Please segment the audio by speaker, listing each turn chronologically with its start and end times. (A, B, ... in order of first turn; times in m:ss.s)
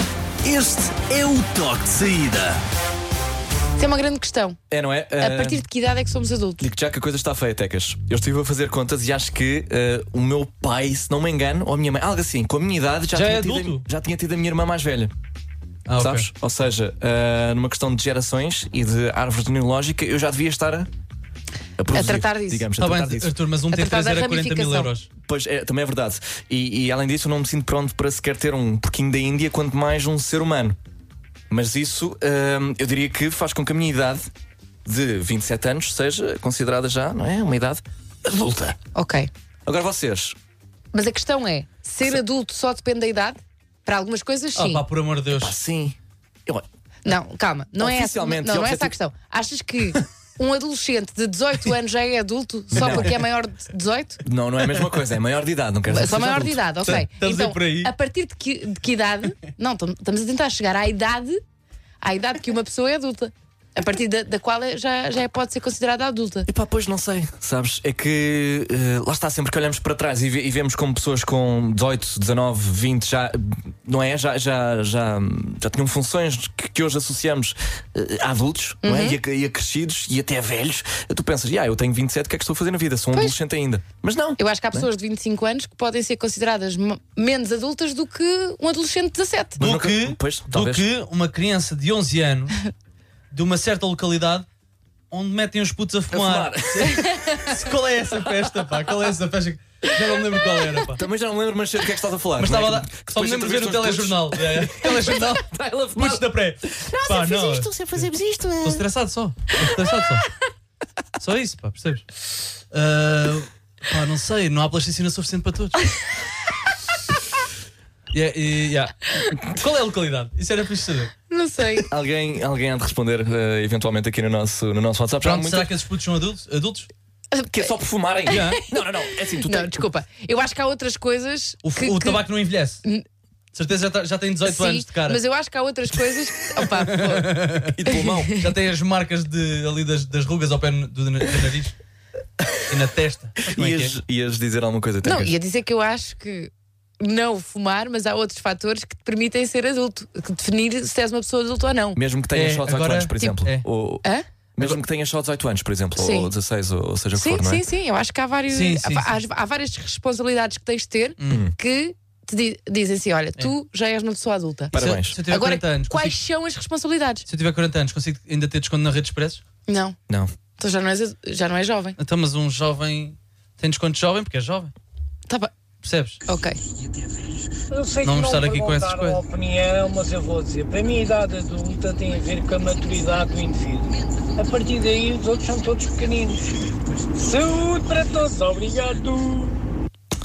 0:00.4-0:02.6 A
0:03.8-0:04.6 B
0:04.7-0:05.6 C
0:05.2-0:06.6 B
0:06.6-0:15.1 C
0:13.1-0:13.8 D
0:15.9-0:16.3 D
0:16.0-0:20.9 C
0:21.8-0:23.3 C
0:21.9-0:22.7 B
0:22.8-0:25.1 D
0:23.7-0:24.9 B
0:25.2-0:30.8 C
0:31.5-0:34.3 C
0:34.8-0:38.8 C
0:38.9-0:39.3 B
0:39.6-0:40.4 C
0:40.9-0:44.8 B
0:44.5-0:45.5 D
0:45.3-0:46.6 C
0:47.0-0:54.2 B
0:47.8-0:48.9 C
0:52.7-0:53.2 C
0:54.2-0:57.0 C
0:55.9-1:01.4 B
0:56.8-0:57.9 D
1:02.0-1:06.5 B
1:06.5-1:24.9 C
1:18.8-1:19.2 B
1:24.4-1:29.6 B
1:29.6-1:30.9 C
1:29.6-1:32.6 D
1:33.3-1:34.4 D
1:35.1-1:41.0 D
1:36.1-1:37.0 C
1:36.9-1:37.3 B
1:40.7-1:48.8 C
1:42.4-1:48.1 D
1:48.6-1:50.3 D
1:51.2-1:52.0 D
1:52.7-1:55.9 D
1:58.1-2:01.1 D
2:01.3-2:01.9 B
2:01.9-2:05.7 C
2:05.2-2:06.9 D
2:07.3-2:07.7 B
2:07.5-2:09.8 C
2:08.3-2:08.6 D
2:08.3-2:12.2 B
2:11.6-2:12.8 D
2:13.5-2:15.2 D
2:14.4-2:18.1 B
2:16.9-2:17.8 D
2:17.7-2:18.4 C
2:18.3-2:21.7 D
2:22.7-2:24.0 D
2:23.5-2:25.4 C
2:25.0-2:32.0 B
2:31.9-2:34.0 C
2:32.3-2:33.6 D
2:34.6-2:37.6 C
2:36.0-2:36.3 B
2:37.1-2:47.2 B
2:38.5-2:39.2 D
2:41.2-2:41.5 D
2:41.3-2:41.5 C
2:44.7-2:45.2 C
2:44.7-2:46.2 D
2:47.3-2:49.4 D
2:49.7-2:50.0 B
2:50.6-2:52.0 B
2:52.0-2:54.7 D
2:55.3-2:55.5 B
2:55.8-2:56.2 D
2:56.3-2:56.6 B
2:57.7-3:06.5 E
2:58.0-2:59.2 D
3:07.1-3:09.6 E